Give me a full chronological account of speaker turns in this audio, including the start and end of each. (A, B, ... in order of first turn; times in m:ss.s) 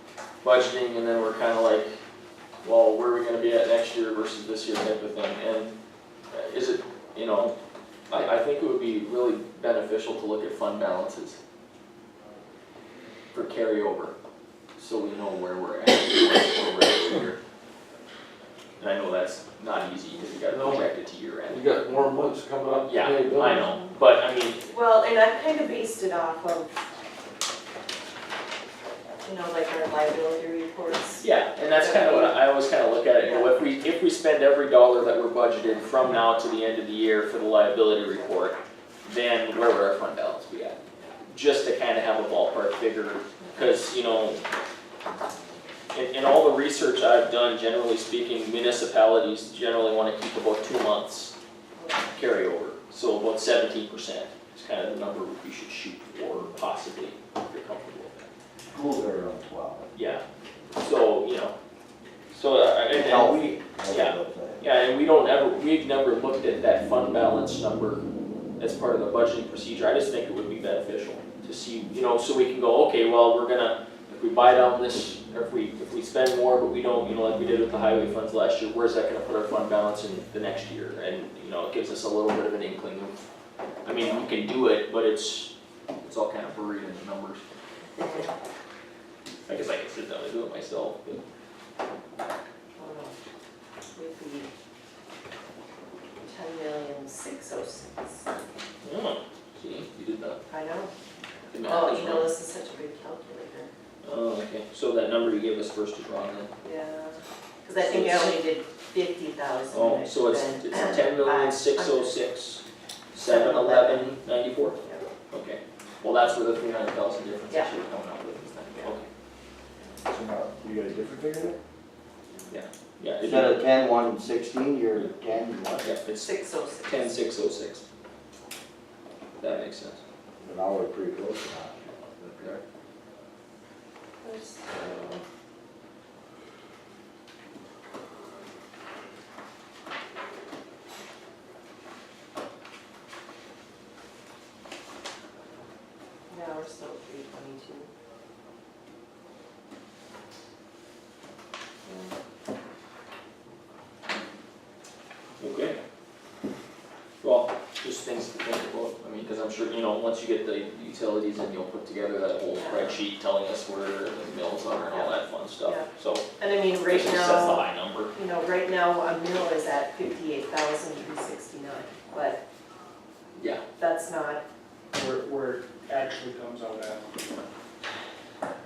0:00.4-0:02.0 A
0:02.6-0:05.7 A
0:06.3-0:07.5 A
0:08.1-0:11.4 A
0:13.3-0:14.1 A
0:14.8-0:17.4 A
0:18.8-0:21.6 A
0:20.5-0:20.8 B
0:21.5-0:23.7 B
0:22.8-0:24.6 A
0:24.6-0:26.7 C
0:29.2-0:32.4 C
0:31.2-0:44.4 A
0:43.4-0:43.8 C
0:45.9-0:51.3 A
0:51.8-0:52.1 C
0:52.0-0:58.3 A
0:58.7-0:59.9 D
0:59.9-1:00.2 A
1:00.7-1:01.5 A
1:02.3-1:08.0 A
1:02.9-1:04.6 D
1:08.6-1:23.2 A
1:23.8-1:25.5 A
1:26.0-1:27.4 A
1:28.0-1:28.3 C
1:29.5-1:31.2 A
1:32.8-1:33.2 C
1:33.9-1:34.5 C
1:36.2-1:38.3 C
1:38.8-1:40.4 A
1:40.5-1:40.9 C
1:41.5-1:42.3 A
1:41.6-1:43.7 C
1:44.0-1:46.5 A
1:46.6-1:52.1 C
1:47.8-1:48.3 A
1:49.7-1:52.6 A
1:53.1-1:54.8 A
1:53.2-1:54.1 C
1:54.8-1:55.0 C
1:55.3-1:59.1 A
2:00.0-2:01.6 D
2:02.5-2:03.6 A
2:03.2-2:06.0 D
2:05.8-2:06.3 A
2:06.2-2:07.1 C
2:06.8-2:07.8 A
2:09.4-2:10.0 A
2:10.4-2:12.6 D
2:14.2-2:15.2 C
2:26.3-2:27.9 C
2:31.8-2:32.1 C
2:35.4-2:35.8 A
2:37.2-2:46.3 A
2:42.5-2:43.0 C
2:44.9-2:45.9 C
2:46.4-2:52.4 C
2:46.8-2:48.1 A
2:53.4-2:53.6 A
2:53.8-2:54.4 C
2:54.9-2:57.2 E